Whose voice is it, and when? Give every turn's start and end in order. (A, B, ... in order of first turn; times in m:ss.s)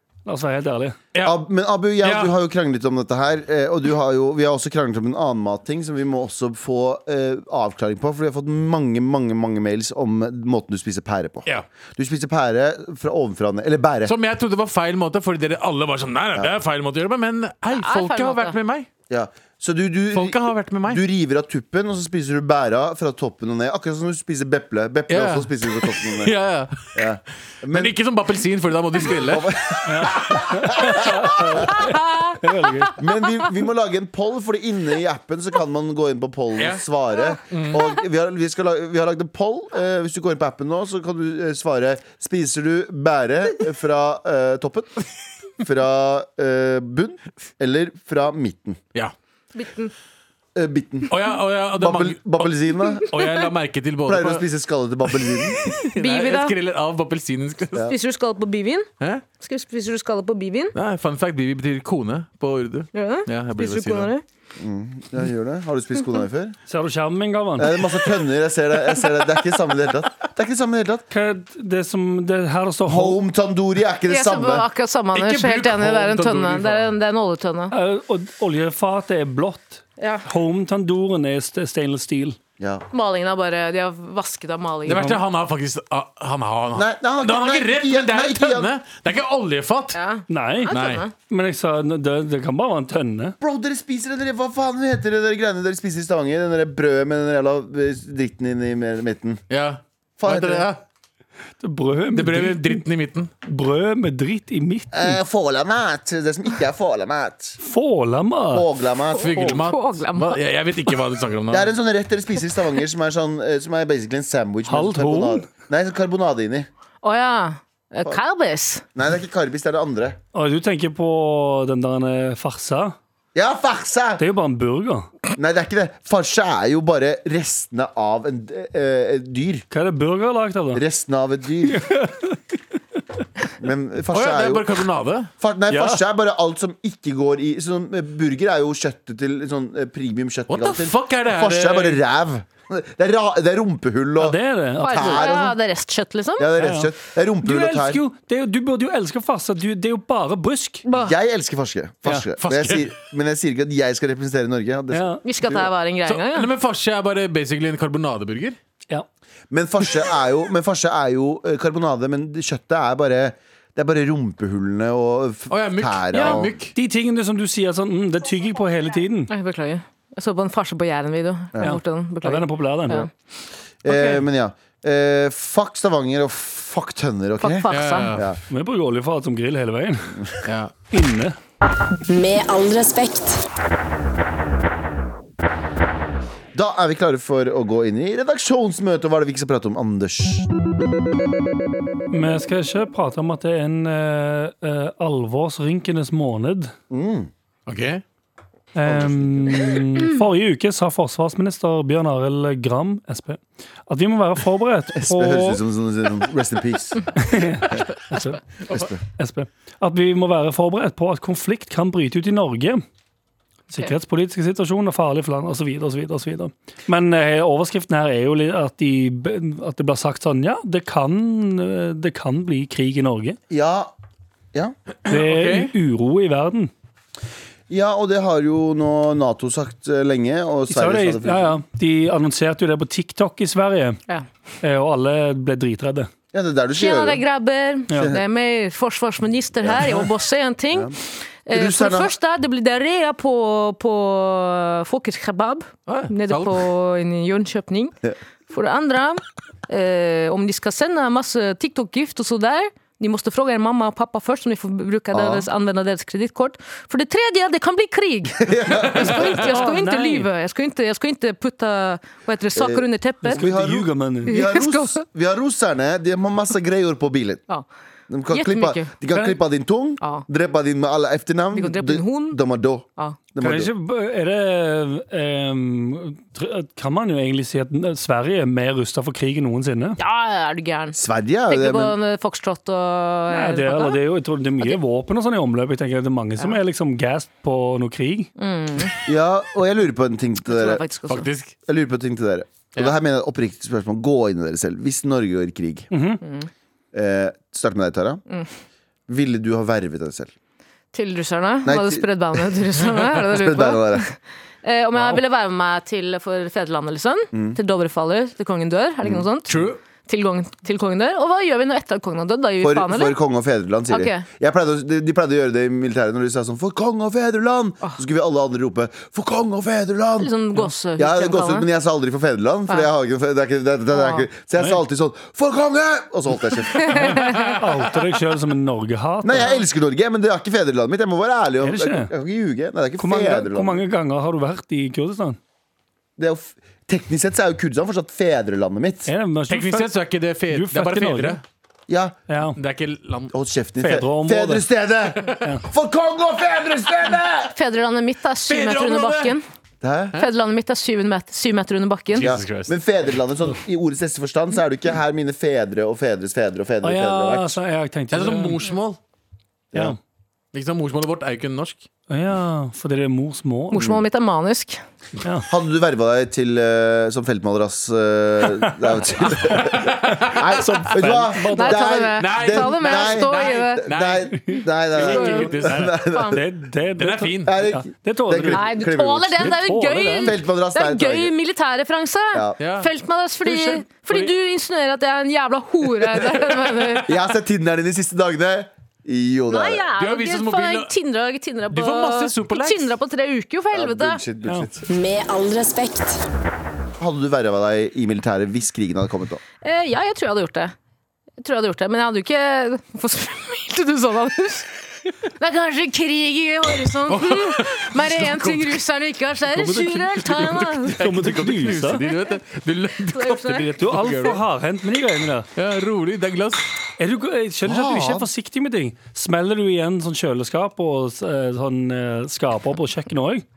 0:00.3-0:01.0 A
0:01.1-0:01.4 B
0:01.2-0:14.1 C
0:02.0-0:02.3 B
0:14.0-0:18.9 B
0:17.7-0:18.6 D
0:19.1-0:26.4 C
0:20.1-0:21.0 B
0:25.1-0:26.9 B
0:26.9-0:28.0 C
0:27.7-0:29.8 B
0:29.0-0:31.8 C
0:29.9-0:33.0 A
0:31.8-0:32.4 D
0:33.0-0:44.9 C
0:36.6-0:36.8 B
0:37.5-0:37.8 B
0:45.6-0:48.8 C
0:49.6-0:49.9 D
0:50.6-0:51.2 C
0:51.1-0:54.5 B
0:51.7-0:53.1 C
0:54.0-0:55.7 C
0:55.1-0:57.9 B
0:56.0-0:56.5 D
0:57.8-0:58.9 D
0:59.4-1:00.8 D
1:00.8-1:04.1 B
1:03.0-1:04.2 D
1:04.6-1:06.6 C
1:06.7-1:07.7 A
1:07.6-1:11.1 C
1:11.1-1:13.2 A
1:12.9-1:14.7 C
1:14.1-1:17.7 D
1:15.1-1:16.9 B
1:17.7-1:22.4 A
1:20.0-1:20.3 D
1:22.6-1:22.9 C
1:22.9-1:25.1 D
1:24.9-1:30.0 B
1:24.9-1:25.2 A
1:26.7-1:28.7 C
1:29.9-1:31.1 D
1:30.3-1:30.7 A
1:30.7-1:31.0 B
1:31.3-1:33.4 A
1:33.4-1:39.4 C
1:39.5-1:40.8 B
1:40.2-1:40.7 C
1:41.6-1:42.8 A
1:42.2-1:43.3 B
1:43.4-1:45.2 A
1:44.9-1:47.6 C
1:47.6-1:48.7 A
1:48.5-1:49.6 C
1:49.1-1:50.4 D
1:49.2-1:51.7 B
1:51.5-1:56.7 C
1:54.7-1:55.5 A
1:57.0-1:58.8 D
1:59.0-2:00.2 C
2:00.3-2:03.0 A
2:03.4-2:04.2 C
2:04.2-2:05.1 A
2:05.4-2:09.6 C
2:09.7-2:10.8 A
2:10.7-2:11.8 C
2:11.7-2:12.4 A
2:13.6-2:14.8 C
2:14.1-2:15.3 B
2:15.4-2:25.6 C
2:15.7-2:16.0 A
2:20.5-2:22.0 B
2:24.2-2:25.4 A
2:24.8-2:26.5 D
2:26.4-2:28.0 C
2:26.6-2:26.9 A
2:27.4-2:30.8 A
2:30.8-2:31.2 D
2:30.9-2:35.7 C
2:32.4-2:33.0 B
2:34.9-2:35.2 A
2:35.2-2:36.5 D
2:36.0-2:38.6 B
2:39.5-2:46.6 C
2:45.5-2:46.8 B
2:46.2-2:49.3 A
2:49.3-2:53.1 D
2:51.6-2:53.1 A
2:53.8-2:58.4 C
2:53.9-2:54.2 B
2:57.4-2:58.2 D
2:57.7-2:58.2 B
2:58.5-3:00.2 A
3:00.4-3:00.7 B
3:00.9-3:01.4 A
3:02.1-3:03.4 E
3:06.5-3:10.5 C
3:12.1-3:16.7 A
3:16.9-3:17.3 C
3:17.7-3:18.0 B
3:18.8-3:25.6 A
3:18.8-3:19.9 C
3:25.0-3:27.8 C
3:27.2-3:28.4 A
3:28.7-3:29.0 C
3:29.2-3:32.8 A
3:33.7-3:43.4 A
3:43.5-3:43.9 C
3:45.1-3:46.7 A
3:45.1-3:45.7 B
3:47.7-3:51.6 C
3:50.7-3:54.0 A
3:54.6-3:56.1 A
3:56.3-3:57.2 C
3:56.7-4:08.0 D
3:58.0-3:58.2 C
4:01.5-4:02.1 C
4:05.9-4:06.7 B
4:08.5-4:23.4 D
4:15.1-4:15.5 C
4:18.4-4:19.4 C
4:19.4-4:20.3 A
4:22.5-4:27.4 C
4:23.3-4:24.4 A
4:24.3-4:25.0 D
4:28.1-4:33.7 C
4:28.3-4:28.9 D
4:30.0-4:30.3 D
4:31.5-4:32.4 D
4:33.4-4:40.0 A
4:40.0-4:41.0 D
4:40.9-4:42.0 C
4:41.5-4:44.0 D
4:43.3-4:48.3 A
4:48.4-4:49.0 D
4:49.1-4:50.8 C
4:50.4-4:51.3 D
4:51.1-4:51.5 B
4:51.7-4:55.9 C
4:55.9-4:56.2 A
4:56.2-4:56.5 D
4:56.9-4:58.2 C
4:59.1-5:00.3 C
5:00.9-5:13.1 D
5:01.6-5:02.6 C
5:03.2-5:04.1 C
5:09.5-5:09.8 B
5:12.6-5:20.3 C
5:13.9-5:14.2 D
5:20.2-5:21.7 D
5:21.0-5:27.2 C
5:23.9-5:24.3 D
5:26.8-5:27.6 D
5:26.9-5:29.6 A
5:29.2-5:33.8 C
5:31.6-5:32.1 A
5:33.0-5:35.4 A
5:36.2-5:39.1 C
5:39.1-5:39.9 A
5:39.5-5:41.4 B
5:40.5-5:41.4 A
5:41.9-5:42.2 C
5:42.3-5:42.6 A
5:42.6-5:43.3 B
5:43.3-5:47.5 C
5:43.8-5:44.7 A
5:45.2-5:45.4 B
5:47.6-5:49.4 D
5:48.4-5:49.4 B
5:49.8-5:50.2 C
5:50.2-5:52.3 D
5:52.1-5:52.8 B
5:52.2-5:57.6 C
5:56.8-5:58.6 A
5:58.1-5:59.0 B
5:59.7-6:00.0 C
6:00.5-6:01.9 B
6:02.1-6:03.9 A
6:03.7-6:04.8 D
6:03.8-6:04.0 C
6:05.2-6:05.5 A
6:05.5-6:16.4 C
6:08.6-6:09.3 A
6:09.4-6:10.6 B
6:10.6-6:11.9 A
6:11.6-6:13.8 D
6:12.2-6:14.4 B
6:14.5-6:15.6 A
6:15.0-6:16.0 B
6:15.1-6:15.5 D
6:16.0-6:16.4 D
6:16.3-6:18.8 A
6:17.0-6:17.5 B
6:17.4-6:19.6 C
6:18.5-6:27.1 D
6:19.4-6:20.4 A
6:20.2-6:21.3 C
6:22.6-6:22.9 B
6:23.4-6:24.3 A
6:27.1-6:29.8 C
6:29.5-6:34.2 D
6:30.0-6:30.9 B
6:31.7-6:32.9 B
6:33.7-6:34.8 C
6:34.9-6:36.2 E
6:37.0-6:39.4 C
6:39.6-6:40.7 D
6:41.4-6:44.7 D
6:45.4-6:51.0 D
6:47.1-6:48.8 B
6:49.5-6:52.0 A
6:50.3-6:54.4 B
6:52.0-6:52.4 D
6:53.1-6:53.7 D
6:53.7-6:55.5 A
6:55.6-6:56.6 B
6:57.0-7:03.4 A
6:57.6-6:58.3 C